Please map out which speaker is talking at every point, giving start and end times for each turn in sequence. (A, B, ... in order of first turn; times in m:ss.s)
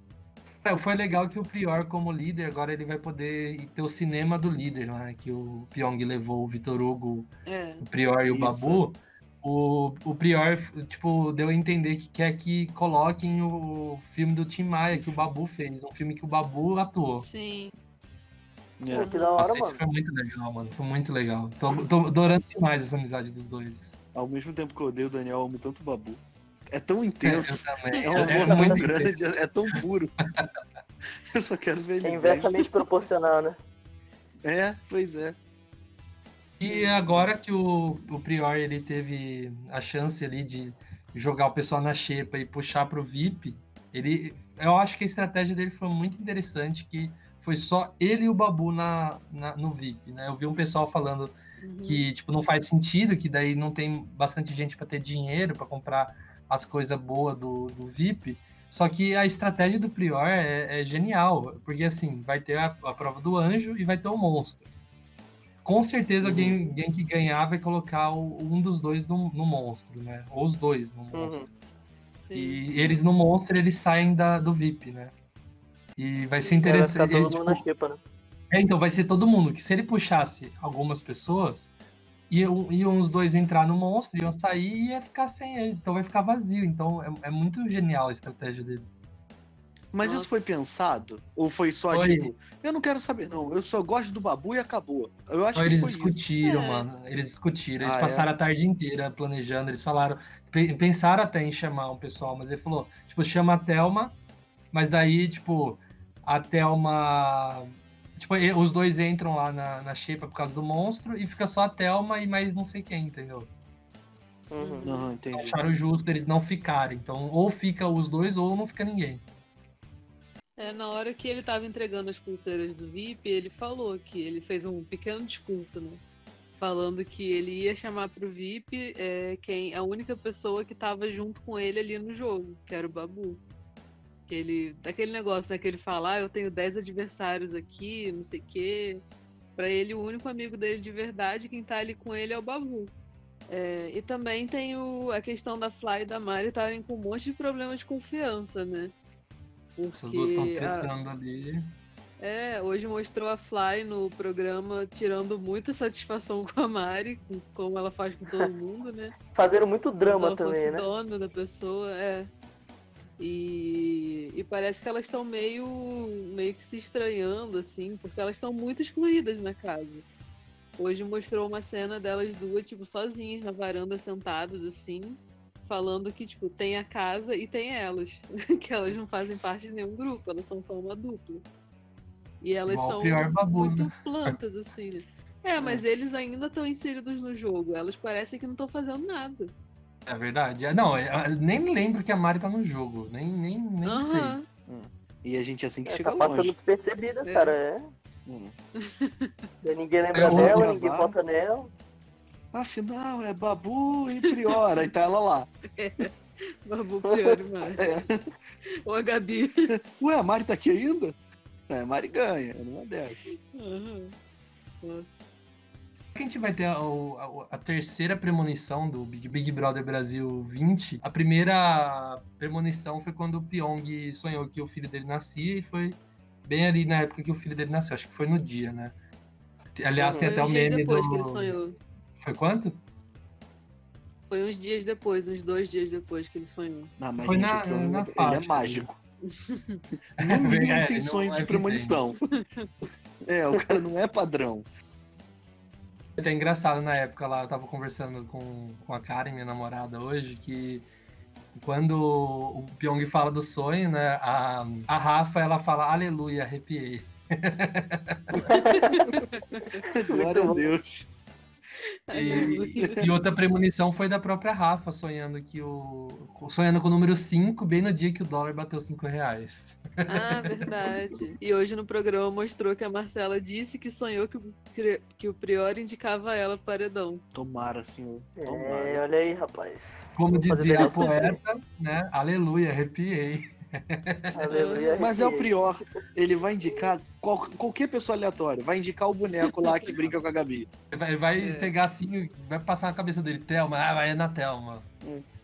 0:00.6-0:07.3 A
0:07.5-0:07.9 B
0:07.8-0:17.3 A
0:08.3-0:08.8 C
0:17.2-0:17.7 B
0:18.8-0:19.1 C
0:18.9-0:19.8 D
0:19.0-0:19.4 B
0:19.4-0:23.9 A
0:24.2-0:30.1 C
0:27.2-0:29.2 A
0:27.9-0:28.3 B
0:28.2-0:28.9 D
0:31.3-0:32.5 C
0:32.0-0:33.6 D
0:34.4-0:35.4 C
0:36.6-1:04.7 A
0:36.6-0:37.3 B
0:51.6-0:52.1 B
1:05.6-1:11.5 A
1:06.2-1:06.5 C
1:06.5-1:06.8 B
1:11.1-1:11.5 D
1:12.2-1:13.1 B
1:12.3-1:15.1 A
1:16.0-1:17.6 A
1:16.3-1:16.6 B
1:16.6-1:18.0 D
1:18.5-1:21.7 A
1:22.3-1:28.9 A
1:29.9-1:36.2 C
1:30.0-1:30.5 B
1:31.9-1:32.3 A
1:35.5-1:44.2 A
1:36.4-1:36.9 B
1:37.8-1:38.3 C
1:44.7-1:53.5 A
1:54.5-1:54.9 D
1:54.6-1:55.1 B
1:54.8-1:55.6 C
1:55.3-1:59.2 A
2:00.6-2:06.0 B
2:06.6-2:13.4 B
2:14.3-2:19.0 B
2:19.6-2:22.9 B
2:23.5-2:28.9 B
2:29.8-2:30.9 B
2:29.9-2:31.6 A
2:32.2-2:39.2 B
2:39.3-2:40.9 D
2:40.0-2:42.3 B
2:43.2-2:50.0 B
2:50.8-3:01.4 B
3:02.4-3:09.5 B
3:02.7-3:04.4 A
3:10.1-3:14.4 A
3:13.8-3:14.4 B
3:14.7-3:16.5 C
3:15.9-3:17.9 D
3:17.2-3:17.6 B
3:18.3-3:18.6 C
3:18.8-3:19.3 B
3:19.6-3:21.7 D
3:20.1-3:20.7 A
3:20.2-3:21.2 C
3:22.5-3:25.5 C
3:25.8-3:26.1 B
3:26.6-3:28.0 B
3:27.0-3:27.3 D
3:27.8-3:28.3 C
3:28.9-3:29.7 B
3:29.7-3:31.2 C
3:31.7-3:33.2 C
3:33.3-3:34.2 B
3:34.8-3:35.2 B
3:36.1-3:48.9 A
3:49.8-3:51.5 A
3:50.0-3:50.3 D
3:50.1-3:51.8 B
3:52.2-3:52.8 A
3:54.2-3:56.9 B
3:57.0-3:59.0 C
3:57.2-3:58.9 A
3:59.3-3:59.8 B
4:00.2-4:02.2 C
4:00.3-4:02.0 A
4:02.3-4:02.7 B
4:03.3-4:04.7 C
4:06.2-4:10.9 A
4:11.5-4:18.4 A
4:18.5-4:19.0 D
4:18.7-4:19.8 B
4:19.9-4:21.1 C
4:20.1-4:20.7 D
4:22.1-4:23.1 B
4:22.1-4:30.7 A
4:30.1-4:37.2 B
4:37.3-4:39.0 C
4:38.4-4:41.4 D
4:40.2-4:44.3 A
4:44.3-4:45.7 D
4:44.5-4:45.0 B
4:45.0-4:50.7 C
4:49.6-4:49.9 B
4:50.9-4:54.9 A
4:51.3-4:51.8 B